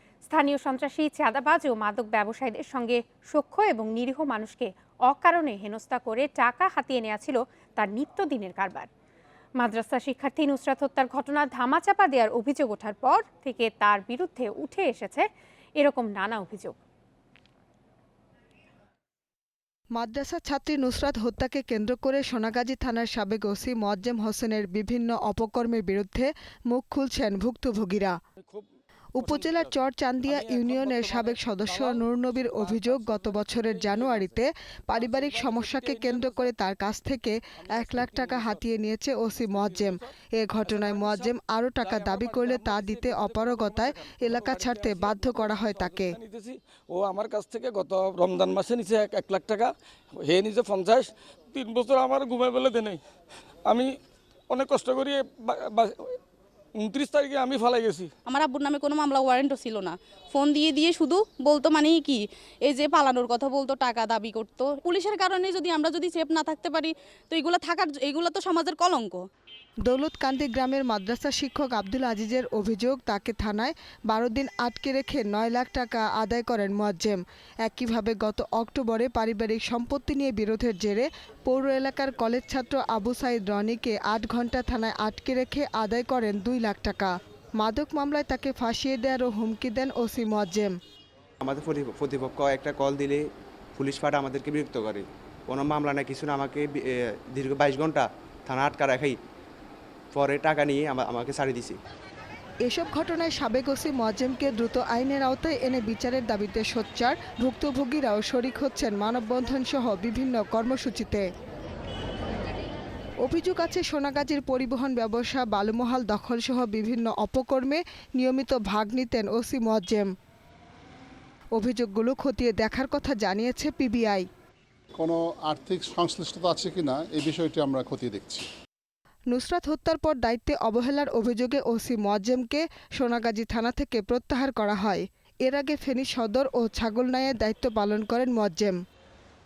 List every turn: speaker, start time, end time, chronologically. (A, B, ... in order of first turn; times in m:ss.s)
0:00.3-0:08.9 A
0:09.6-0:16.8 A
0:20.0-0:28.2 B
0:28.4-0:28.7 C
0:29.2-0:46.2 B
0:29.2-0:34.4 C
0:34.9-0:36.5 C
0:37.6-0:38.7 C
0:39.3-0:53.0 C
0:53.7-0:53.9 C
0:54.5-0:56.2 C
0:56.8-0:58.1 C
0:58.3-1:09.2 D
1:09.8-1:30.8 B
1:31.4-1:39.2 E
1:40.1-1:41.8 E
1:42.6-1:51.3 B
1:53.2-2:00.1 B
2:01.6-2:04.2 B
2:05.0-2:08.5 F
2:09.3-2:18.8 B